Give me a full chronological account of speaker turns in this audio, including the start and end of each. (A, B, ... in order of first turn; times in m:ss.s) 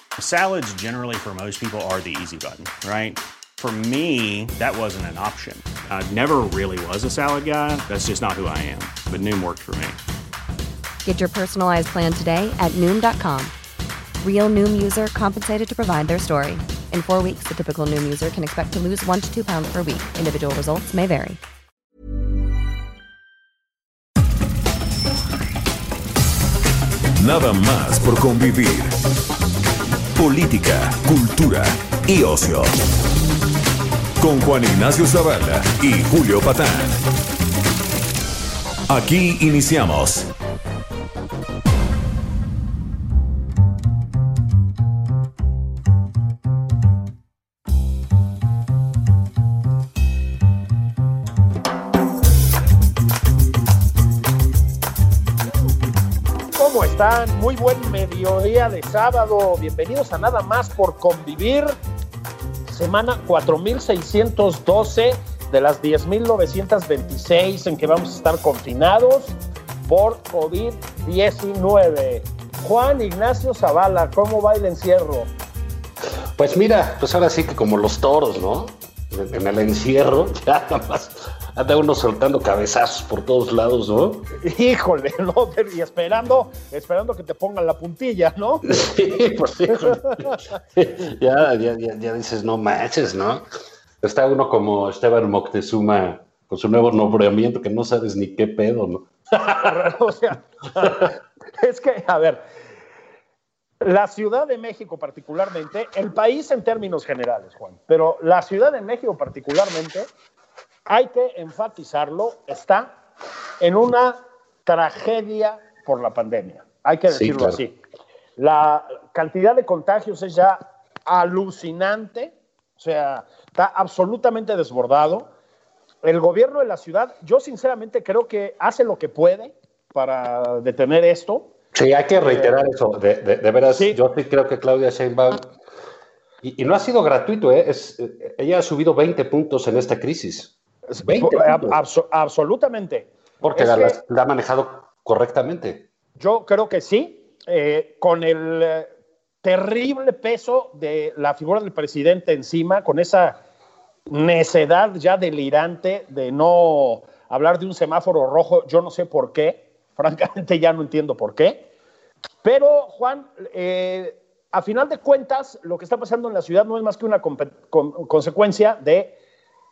0:00.2-0:10.0 A
0:11.0-0:13.5 B
0:14.2-0:21.4 B
0:27.2-0:28.9 C
0:30.2-0:32.7 C
0:34.2-0:37.0 C
0:38.9-0:40.3 C
0:56.6-1:01.8 D
1:02.7-1:09.4 D
1:09.9-1:15.3 D
1:16.4-1:24.3 E
1:24.4-1:28.9 D
1:28.7-1:30.2 E
1:29.7-1:30.4 D
1:30.8-1:33.4 E
1:34.0-1:39.6 E
1:39.4-1:42.4 D
1:43.8-1:50.1 D
1:50.9-1:53.0 D
1:53.6-1:57.8 D
1:57.1-1:57.6 E
1:58.4-2:05.3 D
2:06.0-2:11.5 D
2:11.7-2:15.5 E
2:12.2-2:12.5 D
2:16.4-2:21.8 E
2:20.9-2:24.0 D
2:23.4-2:25.9 E
2:26.2-2:28.9 D
2:29.4-2:33.4 D
2:34.1-2:41.7 D
2:42.4-2:49.2 D